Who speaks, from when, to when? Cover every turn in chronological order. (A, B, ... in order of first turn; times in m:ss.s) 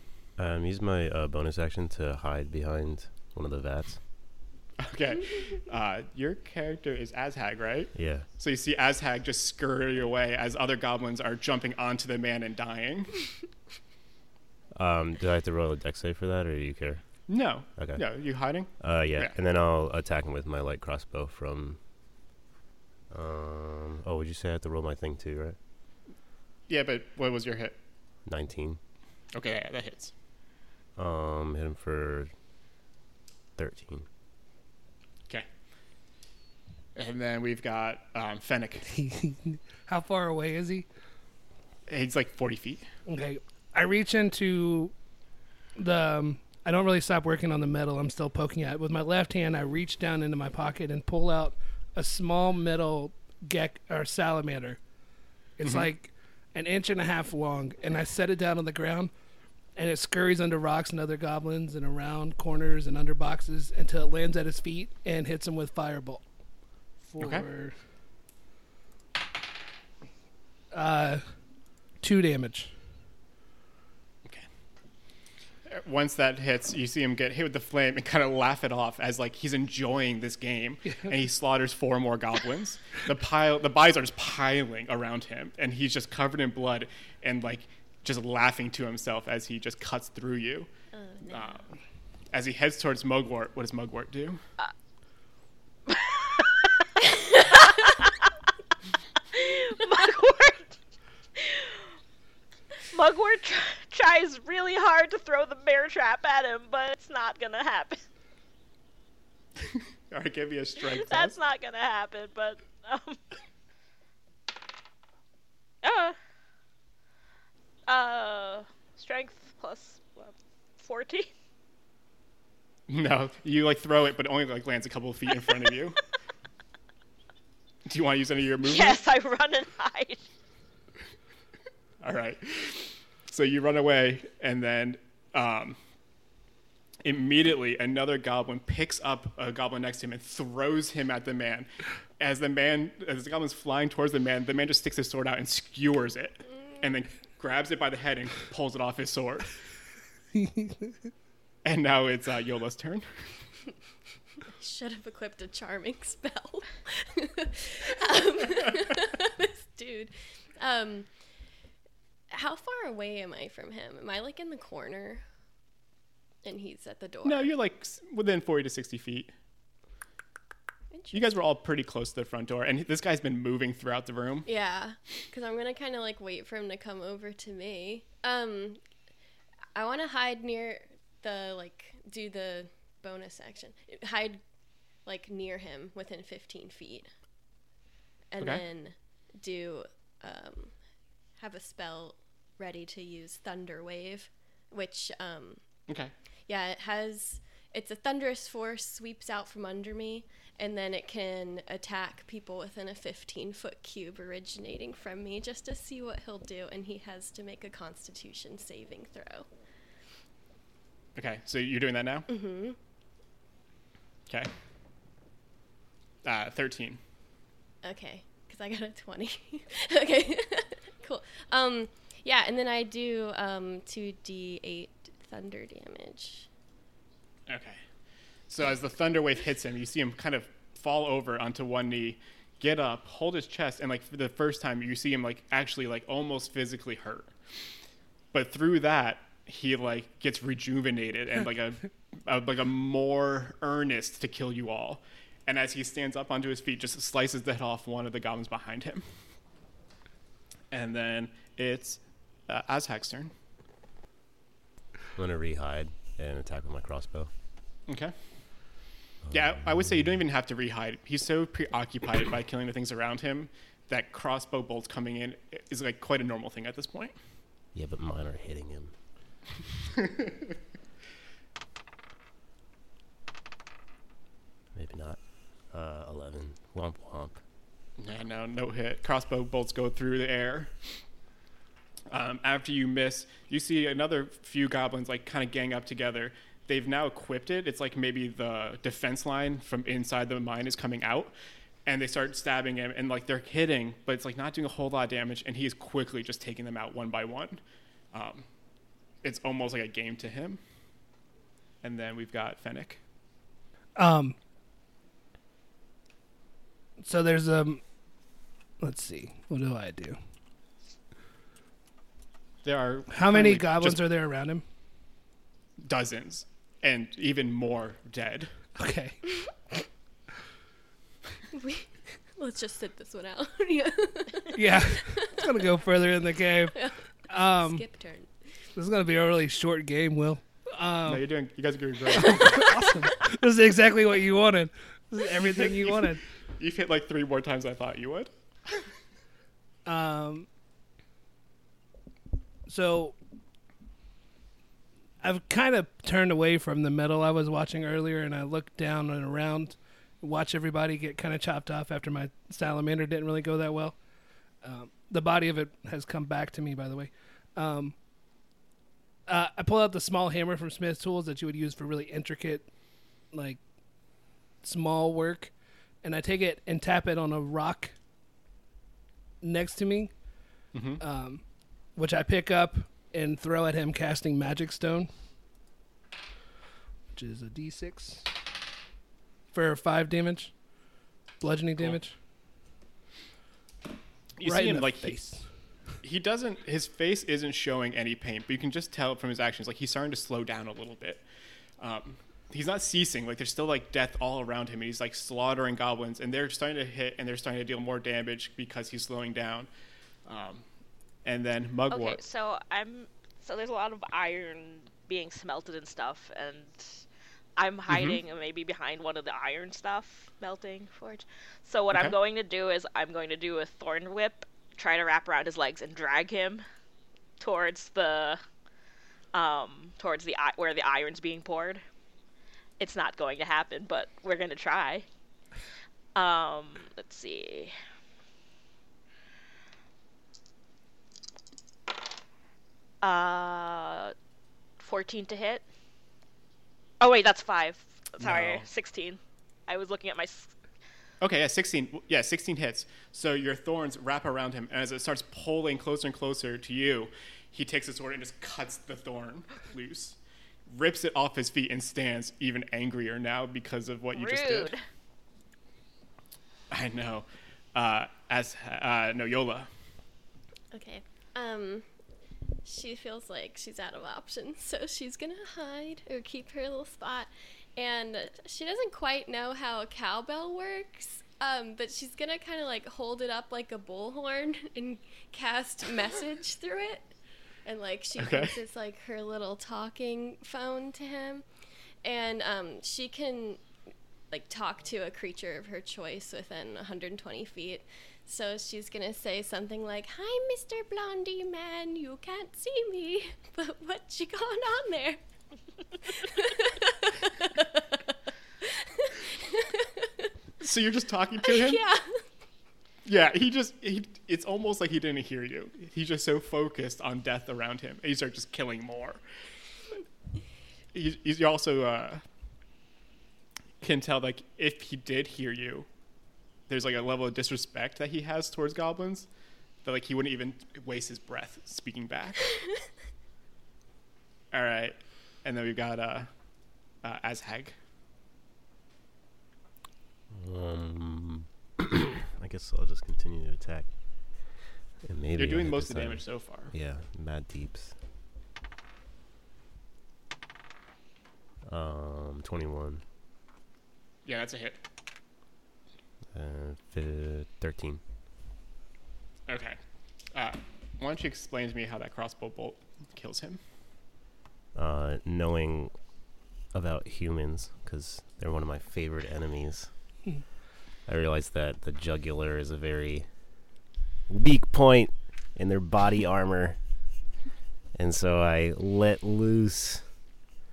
0:00.4-0:04.0 A
0:04.8-0:13.4 B
0:07.9-0:08.2 A
0:14.8-0:17.0 A
0:17.3-0:19.4 B
0:17.8-0:18.0 A
0:18.8-0:21.8 A
0:23.1-0:25.6 A
0:26.7-0:27.8 B
0:28.2-0:28.8 A
0:29.3-0:30.1 B
0:31.0-0:32.3 A
0:33.6-0:34.1 A
0:37.0-0:38.9 B
0:38.9-0:40.8 C
0:41.9-0:42.9 B
0:43.0-0:44.9 C
0:45.7-0:54.8 C
0:55.6-0:59.1 C
0:55.6-0:55.9 B
0:59.7-1:06.3 C
1:07.0-1:07.8 C
1:07.2-1:07.4 B
1:10.7-1:11.4 C
1:12.0-1:12.7 C
1:15.6-1:30.7 B
1:30.9-1:31.7 D
1:31.3-1:31.6 B
1:32.3-1:34.4 B
1:35.9-1:36.7 E
1:37.4-1:38.1 E
1:39.3-1:40.8 E
1:41.4-1:41.9 E
1:42.9-1:48.0 E
1:49.6-1:51.4 B
1:50.9-1:53.2 E
1:55.8-1:56.2 E
1:57.9-2:01.3 E
2:02.9-2:06.0 B
2:07.8-2:09.0 B
2:08.6-2:10.2 E
2:12.0-2:15.8 B
2:17.0-2:29.5 B
2:26.5-2:26.8 D
2:30.3-2:30.9 C
2:31.6-2:33.3 B
2:34.6-2:41.1 D
2:42.3-2:45.2 D
2:46.4-2:47.5 D
2:47.2-2:49.3 B
2:50.9-2:51.3 D
2:51.1-2:54.5 B
2:54.4-2:58.8 D
2:59.7-3:04.4 D
3:05.0-3:07.1 D
3:08.3-3:10.8 D
3:11.4-3:15.6 D
3:15.9-3:16.1 B
3:16.4-3:29.5 D
3:31.1-3:32.3 B
3:32.3-3:32.8 D
3:36.2-3:37.0 B
3:37.8-3:46.5 D
3:47.5-3:47.8 B
3:48.5-3:57.3 B
3:58.3-4:09.0 B
4:10.7-4:13.3 B
4:15.2-4:17.3 A
4:17.9-4:18.1 B
4:19.3-4:20.0 A
4:19.3-4:27.1 B
4:27.7-4:28.9 A
4:34.7-4:37.4 A
4:38.0-4:40.7 B
4:42.1-4:51.3 B
4:51.8-4:57.6 B
4:58.1-4:58.4 B
4:59.2-5:00.6 B
5:01.8-5:03.0 B
5:04.0-5:04.4 C
5:07.0-5:08.0 C
5:08.8-5:10.2 C
5:12.6-5:14.0 B
5:13.1-5:14.6 C
5:15.8-5:18.6 B
5:18.8-5:19.6 C
5:21.5-5:25.4 D
5:24.5-5:28.0 C
5:26.7-5:28.6 D
5:28.7-5:31.2 C
5:31.0-5:32.8 B
5:32.1-5:36.2 C
5:35.4-5:38.3 B
5:39.8-5:40.4 C
5:42.6-5:43.1 C
5:45.2-5:54.0 C
5:54.6-5:58.0 C
5:59.2-6:03.6 C
6:04.6-6:08.0 C
6:09.4-6:15.1 C
6:10.7-6:11.0 B
6:17.1-6:18.3 C
6:19.5-6:20.6 C
6:21.4-6:22.2 C
6:24.4-6:25.2 B
6:24.4-6:26.0 C
6:26.0-6:31.2 B
6:31.8-6:39.7 B
6:40.2-6:40.6 B
6:41.2-6:42.2 B
6:41.9-6:47.0 E
6:47.6-6:56.6 E
6:47.9-6:48.2 B
6:57.4-6:58.4 E
6:59.3-7:01.8 E
7:02.8-7:05.0 E
7:06.1-7:07.7 E
7:13.0-7:14.1 E
7:14.8-7:15.6 E
7:17.0-7:20.5 E
7:18.2-7:18.6 B
7:21.2-7:34.7 B
7:34.1-7:34.8 E
7:36.7-7:39.7 B
7:40.7-7:41.9 D
7:42.6-8:01.4 D
7:58.2-7:58.6 B
8:02.0-8:03.6 D
8:04.3-8:15.2 D
8:16.1-8:18.0 D
8:18.8-8:20.2 D
8:20.6-8:21.8 B
8:21.4-8:22.2 D
8:23.0-8:29.2 B
8:30.9-8:32.2 B
8:33.8-8:35.9 B
8:36.7-8:39.3 B
8:39.8-8:42.7 B
8:44.5-8:46.3 B
8:47.0-8:47.8 B
8:50.3-8:58.0 A
8:55.4-8:56.7 B
9:01.6-9:03.0 A
9:04.2-9:04.8 B
9:06.3-9:08.0 A
9:09.5-9:09.8 B
9:10.3-9:13.6 B
9:14.7-9:16.2 A
9:16.7-9:20.3 A
9:21.0-9:23.7 A
9:24.3-9:26.8 A
9:27.9-9:30.1 A